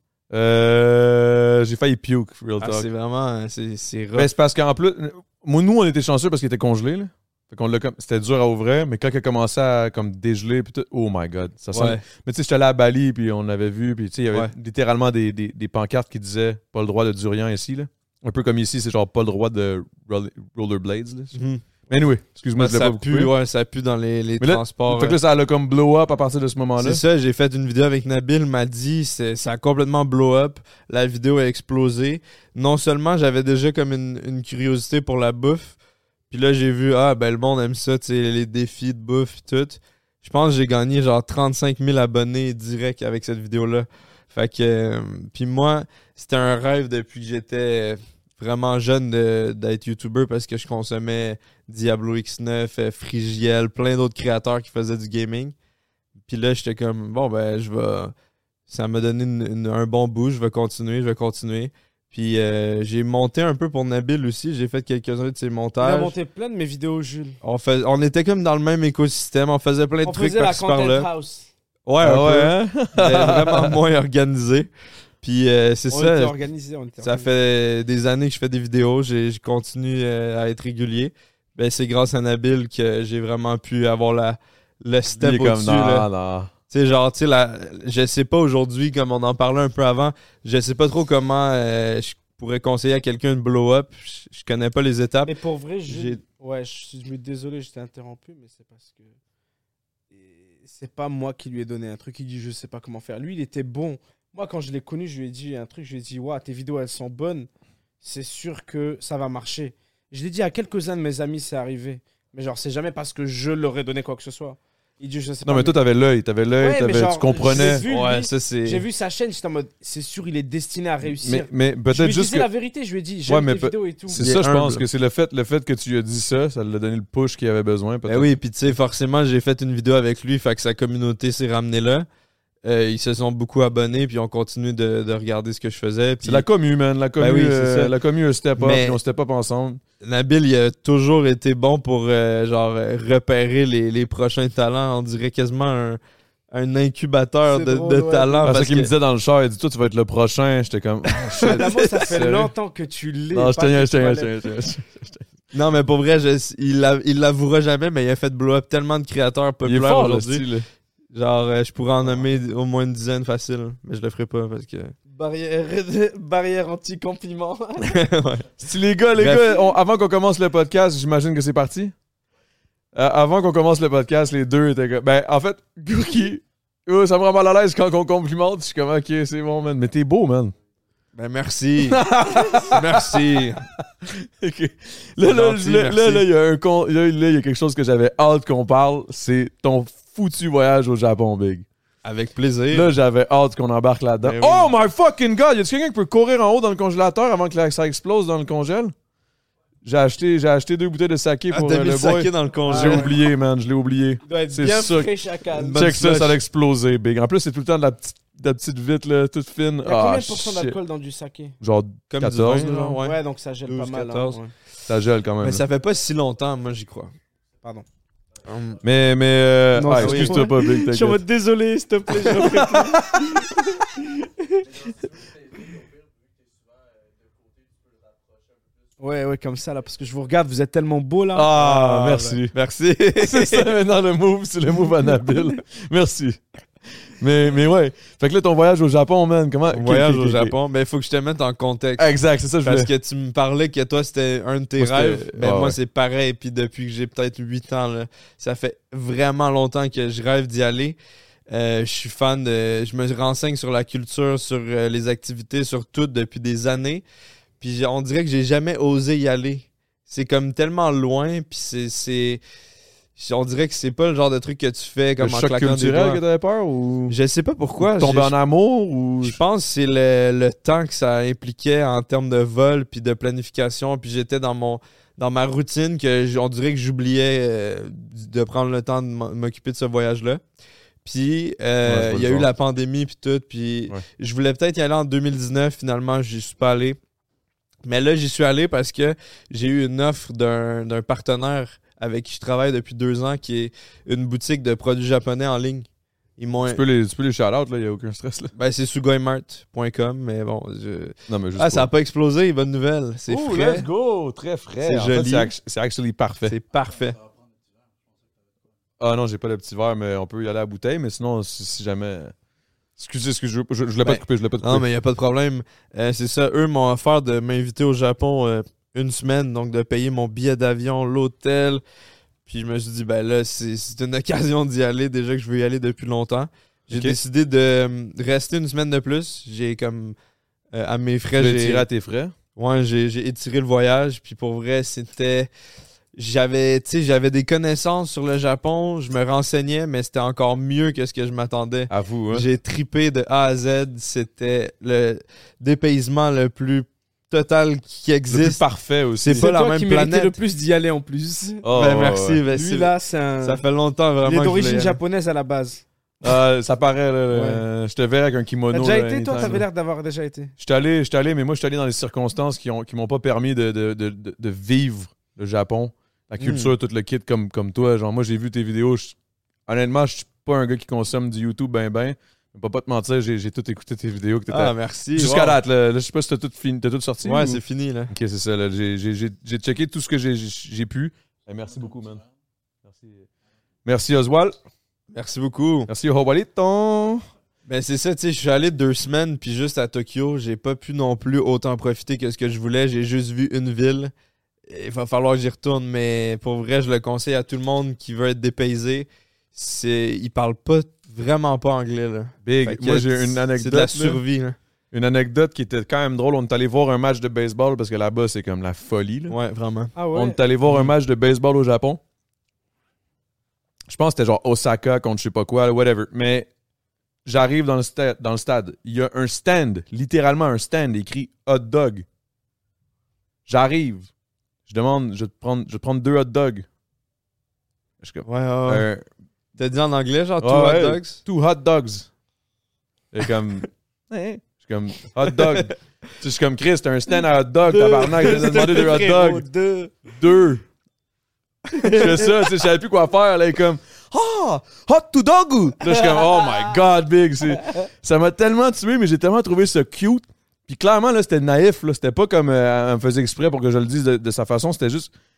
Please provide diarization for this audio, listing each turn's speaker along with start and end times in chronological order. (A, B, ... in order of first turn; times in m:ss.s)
0:00.3-0:02.9 A
0:02.6-0:04.3 B
0:04.2-0:21.4 A
0:11.7-0:12.0 B
0:21.3-0:21.6 B
0:21.9-0:23.3 A
0:22.6-0:25.2 B
0:24.4-0:27.0 A
0:26.8-0:35.8 B
0:36.3-0:55.5 B
0:56.3-0:58.1 B
0:58.7-1:06.1 B
1:05.8-1:07.4 C
1:07.4-1:11.1 B
1:10.0-1:11.5 C
1:11.8-1:14.7 B
1:12.0-1:13.7 A
1:15.2-1:16.3 B
1:15.9-1:17.3 C
1:17.0-1:26.1 B
1:25.1-1:26.5 A
1:26.7-1:35.3 B
1:35.2-1:39.1 C
1:35.9-1:36.2 B
1:40.1-1:47.5 C
1:48.0-1:55.8 C
1:55.4-1:57.8 A
1:56.6-2:04.2 C
1:57.8-1:58.8 B
2:01.2-2:02.5 A
2:03.3-2:08.3 A
2:04.1-2:04.8 B
2:08.1-2:12.0 B
2:12.6-2:16.4 B
2:16.2-2:19.8 A
2:17.2-2:17.9 B
2:18.6-2:19.0 B
2:20.0-2:26.0 B
2:26.5-2:28.9 B
2:27.5-2:28.5 C
2:28.4-2:32.5 A
2:31.3-2:31.7 B
2:31.5-2:34.3 C
2:33.3-2:35.2 A
2:35.5-2:40.4 B
2:39.6-2:40.6 A
2:41.1-2:44.9 B
2:45.1-2:48.0 C
2:47.8-2:48.5 B
2:48.6-2:51.9 A
2:49.2-2:49.6 B
2:52.9-3:00.5 A
3:01.1-3:02.0 B
3:01.9-3:03.3 A
3:02.7-3:03.6 B
3:04.1-3:11.6 A
3:05.2-3:06.2 B
3:12.0-3:12.9 B
3:12.7-3:18.9 A
3:14.2-3:14.7 B
3:19.8-3:25.1 A
3:21.5-3:23.1 B
3:22.7-3:23.1 C
3:24.2-3:25.8 C
3:25.6-3:26.4 B
3:25.8-3:30.8 A
3:29.8-3:31.6 C
3:31.6-3:32.9 A
3:32.1-3:34.4 B
3:32.8-3:34.5 C
3:34.9-3:35.6 A
3:35.4-3:37.1 B
3:38.4-3:38.8 B
3:38.8-3:41.2 A
3:39.7-3:44.0 C
3:39.9-3:40.5 B
3:42.3-3:43.2 A
3:49.0-3:52.3 C
3:51.3-3:52.5 A
3:51.6-3:53.7 B
3:53.2-3:56.4 A
3:57.2-4:00.5 A
3:59.7-4:02.1 B
4:02.0-4:02.9 A
4:02.6-4:11.0 B
4:04.8-4:05.8 A
4:11.5-4:17.0 B
4:17.6-4:22.4 B
4:23.2-4:26.2 B
4:25.2-4:27.1 A
4:27.1-4:28.3 B
4:27.8-4:29.4 A
4:29.2-4:40.4 B
4:41.0-4:47.0 B
4:41.8-4:42.5 A
4:47.8-4:55.9 B
4:56.4-4:56.8 B
4:56.6-4:58.5 A
4:58.5-5:03.9 B
5:01.3-5:01.9 A
5:03.3-5:06.6 A
5:04.8-5:05.5 B
5:06.4-5:07.2 B
5:09.0-5:12.3 A
5:13.0-5:14.8 A
5:14.0-5:21.8 B
5:22.4-5:30.2 B
5:26.9-5:27.2 A
5:30.7-5:31.8 B
5:31.4-5:32.3 A
5:32.6-5:35.5 B
5:36.2-5:48.6 B
5:41.9-5:42.4 A
5:48.3-5:49.5 A
5:49.2-5:50.3 B
5:49.4-5:51.6 C
5:51.6-5:52.4 A
5:51.7-5:55.0 B
5:52.5-5:53.6 C
5:54.2-5:55.8 C
5:56.2-5:59.6 A
5:57.3-5:57.6 C
5:58.7-6:00.5 C
6:00.6-6:09.1 A
6:06.4-6:06.7 B
6:09.7-6:22.2 A
6:14.5-6:15.6 B
6:17.2-6:18.1 B
6:22.8-6:23.2 A
6:23.8-6:24.6 A
6:25.1-6:25.9 B
6:25.9-6:27.2 A
6:27.7-6:34.1 B
6:34.7-6:44.6 B
6:42.4-6:44.2 A
6:44.9-6:49.4 A
6:49.3-6:49.9 B
6:49.9-6:50.4 C
6:50.1-6:52.0 A
6:50.6-6:50.9 B
6:53.9-6:56.5 A
6:57.2-7:02.0 A
7:03.5-7:04.1 A
7:04.7-7:06.6 A
7:08.0-7:09.0 A
7:08.2-7:08.9 B
7:09.6-7:11.2 B
7:10.4-7:12.1 A
7:13.1-7:19.4 A
7:17.6-7:20.0 C
7:18.5-7:18.8 B
7:20.1-7:20.6 A
7:21.7-7:22.5 C
7:21.9-7:35.1 A
7:25.9-7:26.8 C
7:27.5-7:27.8 C